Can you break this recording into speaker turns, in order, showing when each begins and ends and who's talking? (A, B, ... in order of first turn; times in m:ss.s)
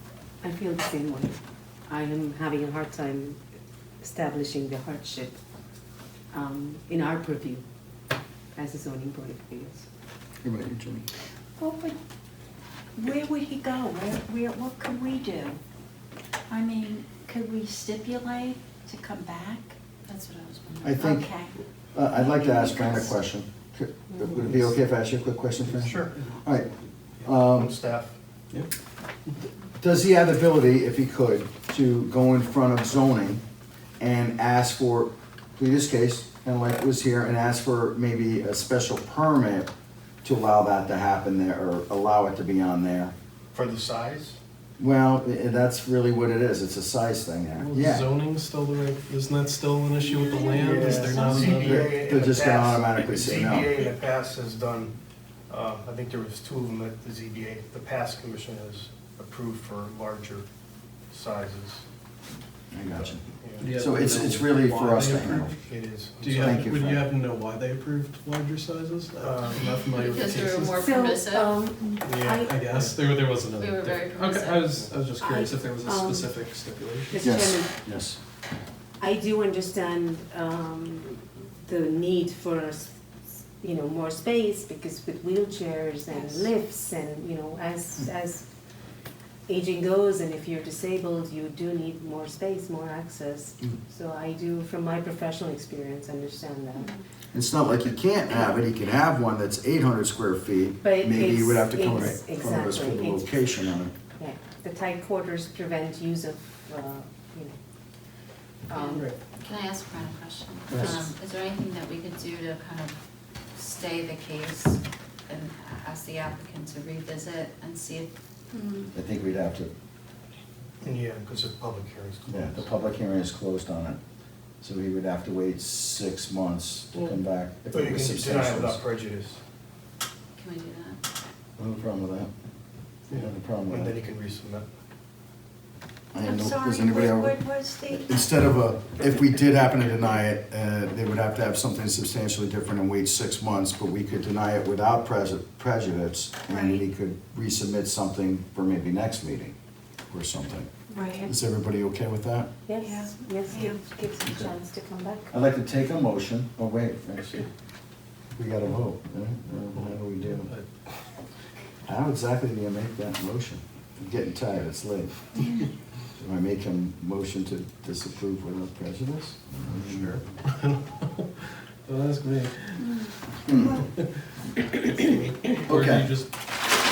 0:00.4-0:01.4 A
0:01.9-0:03.4 A
0:04.0-0:05.4 A
0:06.3-0:07.6 A
0:08.6-0:09.9 A
0:10.4-0:11.1 B
0:11.6-0:12.0 C
0:13.0-0:15.6 C
0:16.5-0:19.7 C
0:20.0-0:21.2 D
0:20.8-0:21.3 B
0:21.0-0:21.5 C
0:21.9-0:26.7 B
0:22.1-0:23.1 C
0:25.8-0:26.1 E
0:27.2-0:27.7 B
0:27.3-0:28.1 E
0:29.8-0:33.4 B
0:34.0-0:39.7 B
0:40.2-0:43.1 B
0:43.5-0:44.4 E
0:44.8-0:48.1 B
0:47.6-0:51.9 F
0:50.1-0:51.2 C
0:50.4-0:54.9 E
0:51.3-0:53.7 B
0:55.5-1:00.5 E
1:01.1-1:01.8 E
1:02.7-1:05.6 B
1:03.4-1:03.7 E
1:03.6-1:05.6 F
1:05.7-1:06.6 E
1:06.2-1:10.8 F
1:06.4-1:07.0 B
1:09.2-1:09.6 E
1:09.5-1:11.6 D
1:10.7-1:12.5 A
1:12.0-1:13.0 E
1:12.2-1:17.2 F
1:13.4-1:14.7 D
1:15.2-1:16.3 A
1:17.1-1:17.7 A
1:17.2-1:18.2 B
1:19.0-1:23.0 A
1:23.6-1:28.5 A
1:29.5-1:37.0 A
1:37.3-1:43.9 B
1:40.8-1:43.4 A
1:44.2-1:47.6 A
1:48.7-1:49.1 A
1:48.7-1:53.0 D
1:53.6-1:58.1 D
1:58.5-1:58.9 C
1:58.9-1:59.7 B
2:00.8-2:02.7 E
2:02.3-2:04.0 B
2:04.6-2:08.8 B
2:07.7-2:09.4 E
2:10.4-2:11.0 D
2:11.6-2:12.3 B
2:13.1-2:14.0 B
2:13.7-2:14.7 E
2:16.1-2:29.5 B
2:16.2-2:18.1 C
2:26.5-2:26.8 C
2:30.1-2:30.7 B
2:30.9-2:31.3 C
2:31.2-2:32.5 B
2:32.7-2:35.3 A
2:32.8-2:33.8 C
2:34.2-2:34.5 B
2:35.3-2:37.5 B
2:38.4-2:40.5 B
2:39.7-2:40.9 F
2:41.9-2:45.5 B
2:46.2-2:50.2 B
2:49.6-2:53.1 F
2:52.8-2:53.2 C
2:53.4-2:53.8 B
2:53.8-2:56.3 F
2:54.8-2:55.6 E
2:55.7-2:56.1 B